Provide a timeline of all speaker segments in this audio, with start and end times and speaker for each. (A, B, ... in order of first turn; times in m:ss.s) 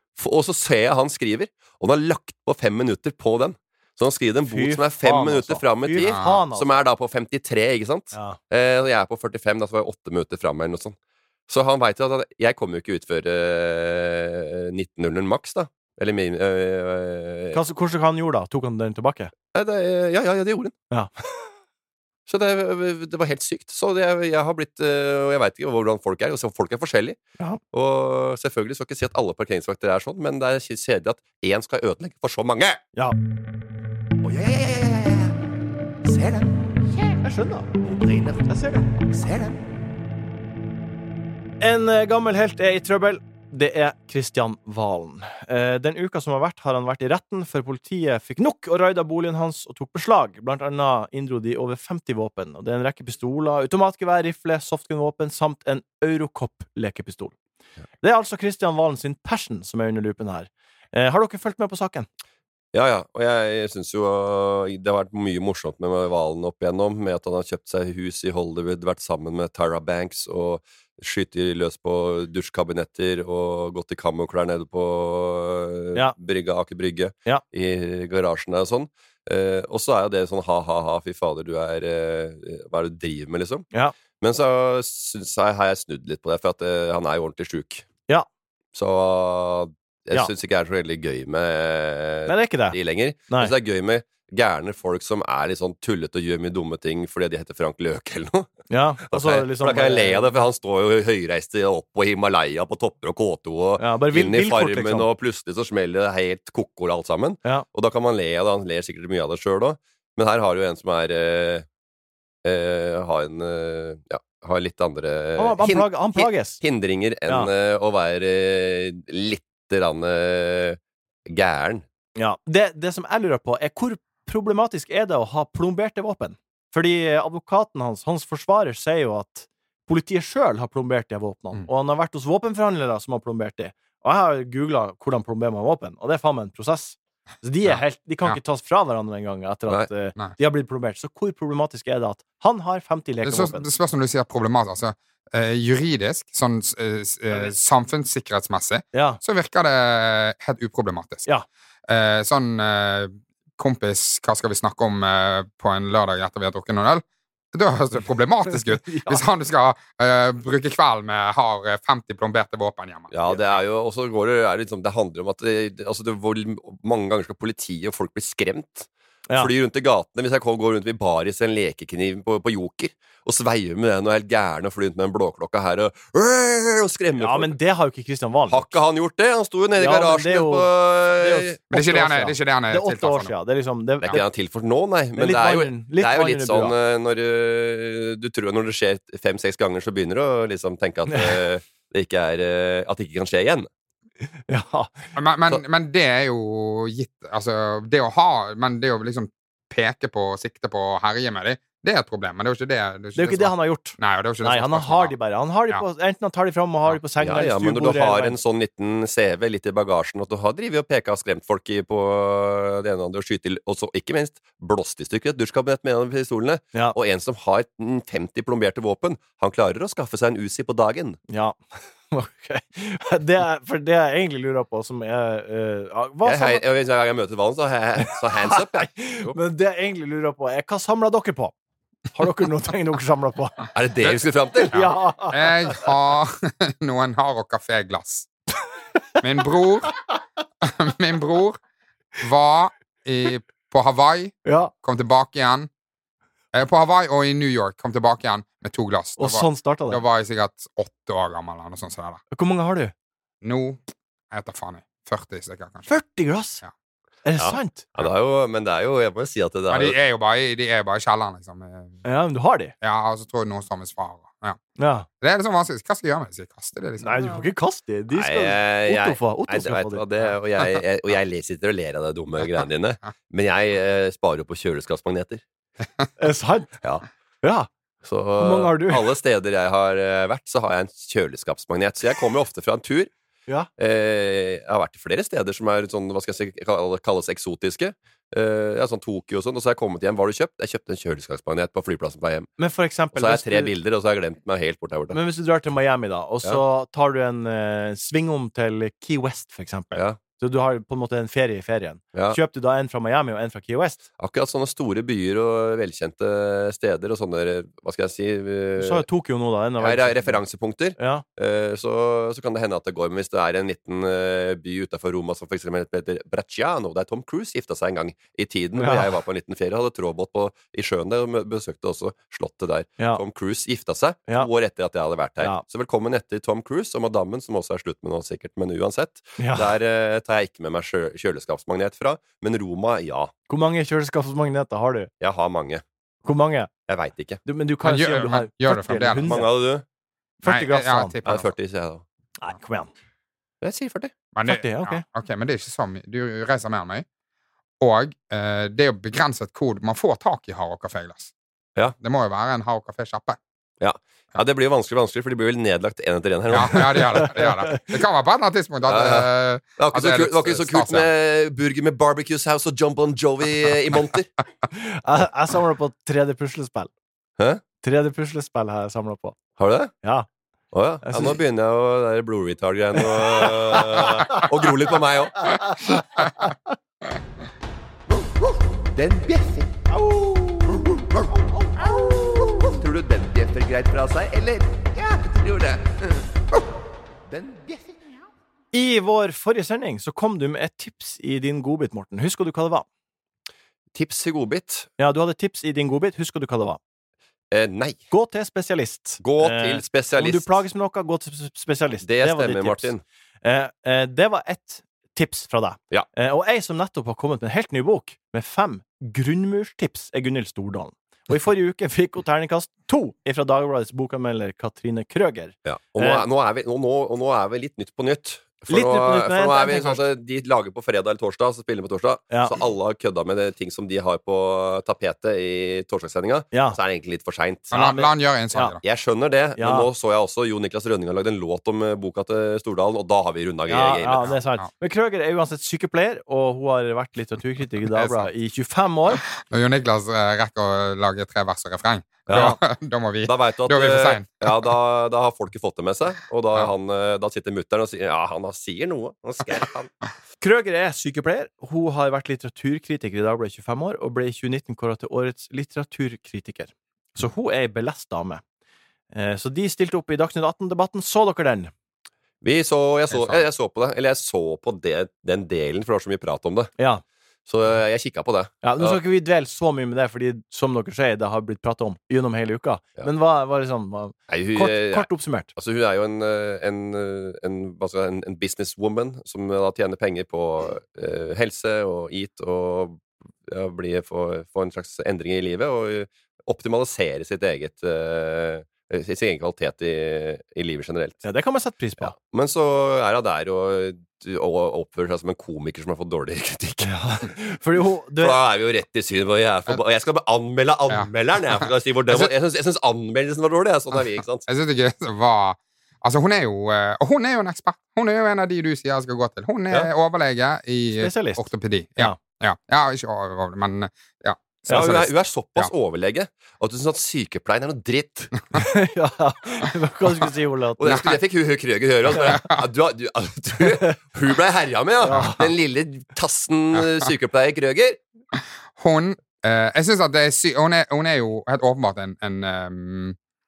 0:00.2-0:11.0 A
0:04.5-0:06.7 B
0:06.0-0:06.4 C
0:08.1-0:08.4 B
0:11.5-0:17.6 A
0:17.5-0:19.3 B
0:19.5-0:20.8 A
0:22.3-0:27.2 A
0:27.7-0:32.8 A
0:34.3-0:35.3 A
0:36.1-0:36.5 A
0:37.2-0:37.7 B
0:37.8-0:38.4 A
0:38.5-0:38.9 B
0:39.2-0:39.6 A
0:41.6-0:57.3 B
0:58.0-1:02.1 B
1:02.7-1:23.7 A
1:24.2-1:27.9 A
1:28.8-1:38.5 A
1:32.3-1:32.8 B
1:38.7-1:40.4 B
1:39.1-1:51.6 A
1:43.8-1:45.1 B
1:52.4-2:01.8 A
1:55.4-1:56.6 B
2:02.2-2:23.7 B
2:17.6-2:18.4 C
2:23.2-2:31.3 C
2:28.9-2:29.2 B
2:31.9-2:43.4 C
2:38.5-2:39.2 B
2:43.1-2:57.5 A
2:57.2-2:58.7 B
2:58.5-3:01.6 A
2:59.8-3:04.2 B
3:01.7-3:03.3 C
3:04.0-3:13.7 A
3:05.2-3:06.7 B
3:11.1-3:11.4 B
3:14.5-3:15.1 B
3:15.2-3:25.2 C
3:23.2-3:28.4 B
3:27.2-3:41.2 A
3:41.3-3:41.6 B
3:42.1-3:46.6 B
3:46.2-3:49.4 A
3:48.1-3:51.5 B
3:52.1-3:53.6 B
3:53.7-3:54.8 A
3:54.7-3:58.3 C
3:54.7-3:55.8 B
3:59.2-3:59.9 C
4:00.6-4:01.6 C
4:02.2-4:05.7 C
4:04.4-4:04.7 B
4:06.5-4:12.2 C
4:09.2-4:10.0 B
4:12.3-4:12.9 B
4:13.4-4:13.8 C
4:14.3-4:15.9 C
4:15.9-4:16.6 B
4:17.2-4:17.8 B
4:17.4-4:20.0 A
4:19.7-4:22.0 C
4:22.0-4:22.7 B
4:22.8-4:24.6 C
4:24.8-4:25.1 B
4:25.2-4:27.3 C
4:27.0-4:30.0 B
4:28.1-4:35.4 A
4:36.2-4:36.7 B
4:37.4-4:37.7 B
4:38.0-4:43.1 A
4:38.4-4:39.1 B
4:43.8-4:52.5 A
4:52.6-4:53.7 B
4:53.1-4:55.2 A
4:55.1-5:04.0 B
5:02.1-5:02.4 A
5:04.2-5:09.0 A
5:08.8-5:10.4 B
5:09.8-5:33.3 A
5:11.0-5:11.2 B
5:18.8-5:19.1 B
5:29.4-5:29.7 B
5:33.5-5:35.1 B
5:35.2-5:35.8 A
5:36.2-5:36.7 B
5:36.9-5:37.4 A
5:37.4-5:39.5 B
5:37.8-5:39.4 C
5:39.2-5:39.8 A
5:40.4-5:41.2 B
5:40.4-5:41.5 C
5:41.2-5:42.0 A
5:42.4-5:42.9 B
5:43.6-5:44.1 A
5:44.3-5:47.0 C
5:44.5-5:45.0 B
5:47.8-5:51.3 C
5:52.0-5:53.4 C
5:53.8-5:57.3 A
5:56.5-6:01.1 C
5:57.2-5:57.5 B
5:58.9-6:04.3 A
6:04.7-6:06.9 B
6:07.8-6:09.4 B
6:09.6-6:09.9 A
6:10.7-6:15.6 A
6:11.0-6:11.4 B
6:13.4-6:14.4 B
6:15.5-6:16.6 B
6:19.0-6:19.7 D
6:22.5-6:25.9 D
6:27.3-6:28.0 D
6:28.7-6:32.9 B
6:34.0-6:34.9 A
6:35.0-6:36.8 B
6:37.5-6:38.0 A
6:38.1-6:56.2 B
6:39.2-6:40.5 A
6:42.0-6:43.0 A
6:55.6-7:08.0 A
6:58.7-7:00.1 B
7:06.5-7:06.8 B
7:07.7-7:08.8 C
7:08.8-7:14.4 A
7:09.6-7:09.9 B
7:13.7-7:19.2 B
7:17.9-7:18.3 C
7:19.4-7:24.7 C
7:22.3-7:22.6 A
7:23.3-7:29.9 A
7:30.4-7:38.4 B
7:39.1-7:41.7 B
7:42.4-7:46.7 A
7:43.1-7:43.4 C
7:46.8-7:47.0 B
7:47.5-7:49.0 A
7:48.6-7:55.5 B
7:54.3-8:11.2 A
8:11.2-8:12.1 B
8:12.0-8:16.9 A
8:16.8-8:18.4 B
8:18.2-8:24.5 A
8:24.5-8:35.7 C
8:31.0-8:32.2 B
8:34.7-8:35.0 B
8:34.7-8:38.4 A
8:38.6-8:41.0 B
8:40.8-8:48.0 A
8:40.9-8:41.2 C
8:42.1-8:42.4 B
8:42.2-8:42.6 C
8:45.0-8:45.5 B
8:48.8-8:53.2 C